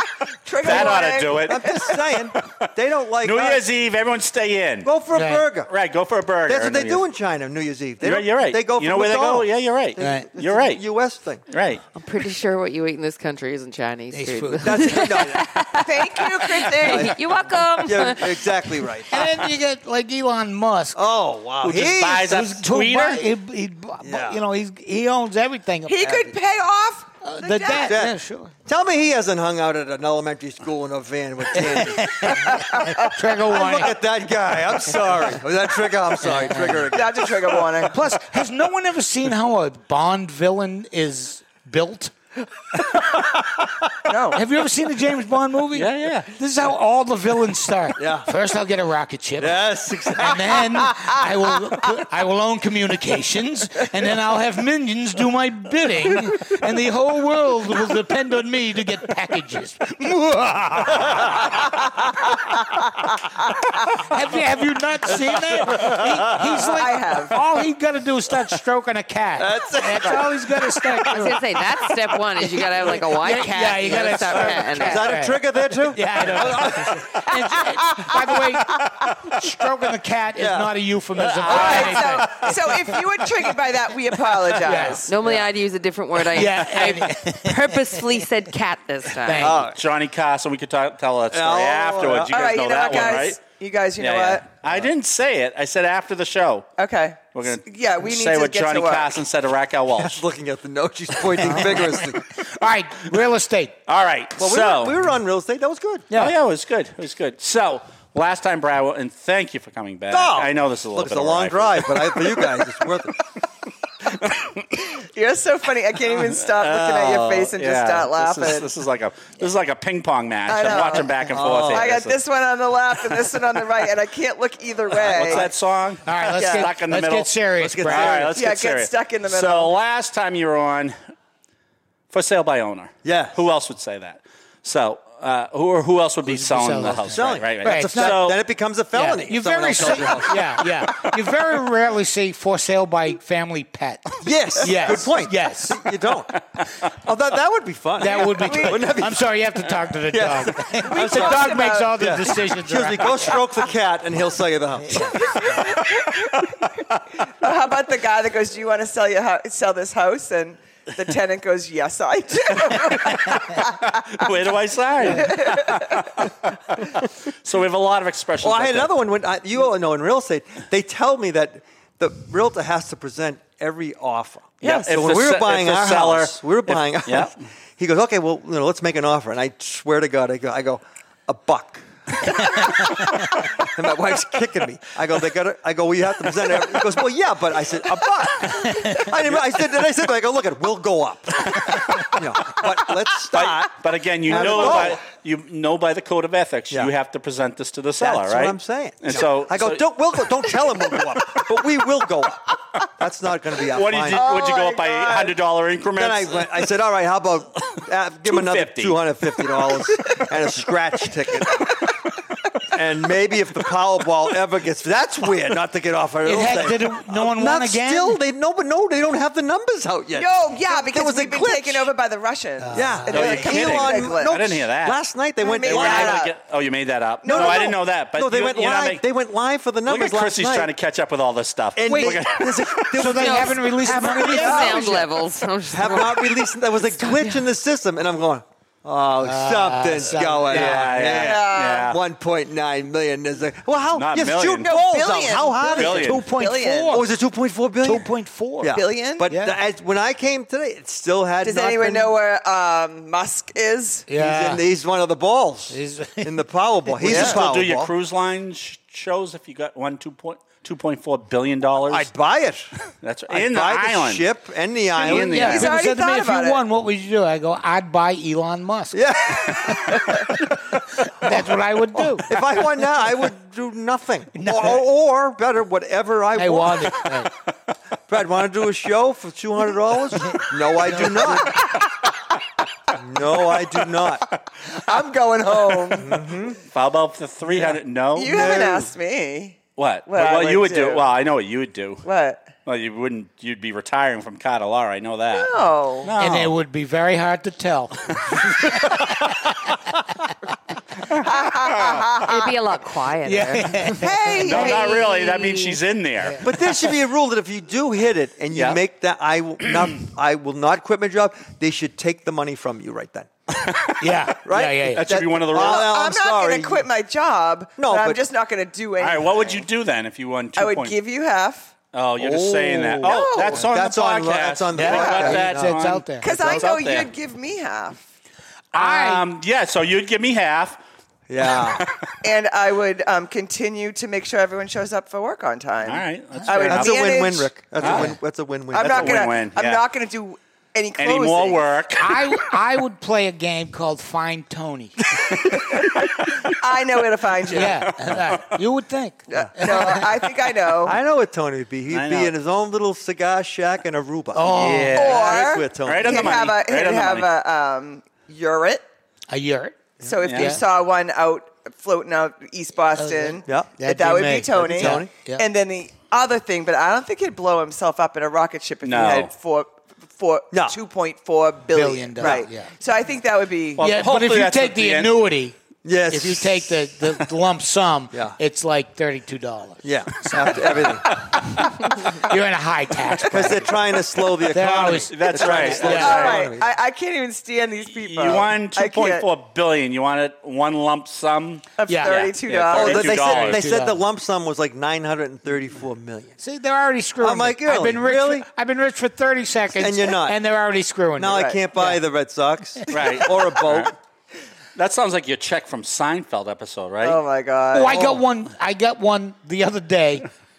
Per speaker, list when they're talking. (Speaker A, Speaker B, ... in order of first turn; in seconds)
Speaker A: 0.2-2.0, 15.9-17.2, 25.9-27.9, 32.5-33.1, 36.9-38.0, 44.1-44.4, 63.5-63.9, 66.7-67.4, 77.3-78.2, 81.5-85.1, 92.3-94.4, 96.8-99.2, 114.8-118.7, 120.5-125.5, 126.4-126.7, 128.3-129.7, 148.0-148.9, 150.8-151.9, 155.2-156.5, 157.3-164.4, 165.1-166.1, 174.6-174.9, 204.1-205.4, 220.1-224.4, 225.4-226.3, 227.2-227.8, 234.1-234.8, 241.1-241.9, 244.6-247.0, 248.7-249.3, 251.4-254.1, 257.1-257.4, 265.1-266.6, 281.4-281.9, 284.7-286.3, 288.1-291.1, 292.1-292.4, 295.3-296.1, 301.1-302.5, 304.0-305.6, 315.5-319.7, 320.6-321.7, 323.0-323.7, 324.8-325.4, 326.2-328.0, 332.2-337.5, 338.7-341.7, 345.5-347.8, 349.3-351.0, 355.0-358.8, 360.0-373.9, 385.9-389.3, 391.8-393.2, 401.3-401.6, 407.0-408.0
Speaker B: 0.6-2.7, 3.2-4.9, 5.7-7.0, 8.0-10.8, 11.5-11.8, 21.6-23.2, 45.7-46.3, 81.3-82.4, 89.7-93.4, 94.0-96.7, 97.3-100.2, 103.9-105.0, 106.1-112.6, 114.2-114.6, 116.3-122.2, 124.9-130.9, 132.1-138.4, 155.6-156.5, 162.5-168.9, 174.6-177.3, 191.5-192.7, 193.3-199.8, 203.7-206.7, 208.3-209.4, 223.1-225.0, 225.6-229.0, 229.9-233.1, 240.5-242.0, 243.9-244.7, 245.8-246.2, 257.1-262.1, 263.0-264.3, 265.0-265.7, 286.7-288.6, 289.8-292.1, 292.7-296.5, 298.2-299.4, 301.1-302.1, 304.4-306.8, 308.5-308.8, 313.6-314.1, 314.9-315.9, 319.0-321.0, 321.9-327.1, 328.7-330.8, 331.4-332.1, 335.8-337.3, 337.8-338.1, 338.8-339.8, 341.0-342.4, 345.1-346.5, 347.5-348.6, 351.9-352.3, 354.5-357.3, 360.2-360.6, 368.8-369.3, 373.8-375.1, 384.8-386.5, 387.9-393.6, 402.9-403.9, 404.8-407.2
Speaker C: 0.6-3.7, 4.8-5.7, 6.5-11.4, 14.6-15.5, 16.8-19.1, 20.9-22.3, 24.0-24.4, 26.0-26.3, 27.8-37.7, 43.0-43.9, 48.0-48.3, 49.4-51.1, 65.1-66.7, 69.4-71.2, 72.4-73.0, 74.7-77.3, 80.3-80.7, 81.5-82.1, 85.2-85.5, 89.4-89.8, 91.3-92.4, 94.7-94.9, 100.0-102.2, 104.4-106.1, 110.1-113.2, 121.3-121.9, 125.0-125.5, 127.6-128.4, 133.0-133.4, 137.1-140.6, 144.2-149.2, 150.1-155.4, 168.4-195.0, 198.0-204.3, 205.9-211.7, 212.7-221.9, 222.7-226.2, 227.3-230.7, 231.7-235.1, 235.7-248.1, 248.6-252.2, 254.2-257.9, 261.9-262.7, 263.3-265.6, 268.9-270.2, 271.9-277.1, 278.1-281.7, 282.9-284.3, 285.9-286.6, 288.3-288.9, 306.4-313.8, 314.4-316.9, 317.8-318.2, 322.2-326.7, 331.3-331.9, 336.6-339.3, 350.8-356.4, 363.5-365.1, 370.5-370.8, 375.8-376.9, 378.1-378.4, 379.8-381.2, 383.3-386.7, 392.7-396.4, 397.2-398.5, 399.7-400.4, 401.2-403.9, 407.9-408.2
Speaker D: 5.1-5.5, 10.0-10.3, 14.1-15.2, 19.1-21.0, 22.1-26.0, 27.2-28.5, 31.5-33.9, 36.2-36.9, 37.9-42.1, 44.3-49.6, 50.1-61.5, 63.9-71.5, 72.9-82.9, 84.6-85.0, 86.3-87.7, 89.2-89.7, 101.3-103.7, 106.1-106.3, 126.0-128.3, 136.3-138.2, 138.9-145.8, 148.0-153.4, 154.9-155.2, 188.6-189.1, 216.2-218.2, 222.6-223.1, 231.9-232.2, 232.9-235.0, 239.2-240.9, 246.0-247.1, 247.8-249.6, 254.1-254.6, 255.7-257.1, 265.1-269.0, 269.7-270.0, 271.0-272.3, 274.3-274.8, 276.3-277.3, 280.9-281.2, 296.2-299.5, 303.2-304.8, 314.0-315.1, 324.8-326.2, 328.7-329.2, 337.8-338.2, 341.9-345.0, 347.5-350.1, 354.3-355.0, 359.3-359.8, 360.3-360.6, 362.9-365.4, 371.7-372.7, 373.8-375.6, 376.1-383.7, 384.5-386.3, 391.9-392.2, 393.1-394.0, 396.4-402.0, 407.7-410.3
Speaker E: 11.9-18.9, 71.1-75.1, 85.1-89.6, 233.1-237.4, 302.2-304.0, 304.9-305.7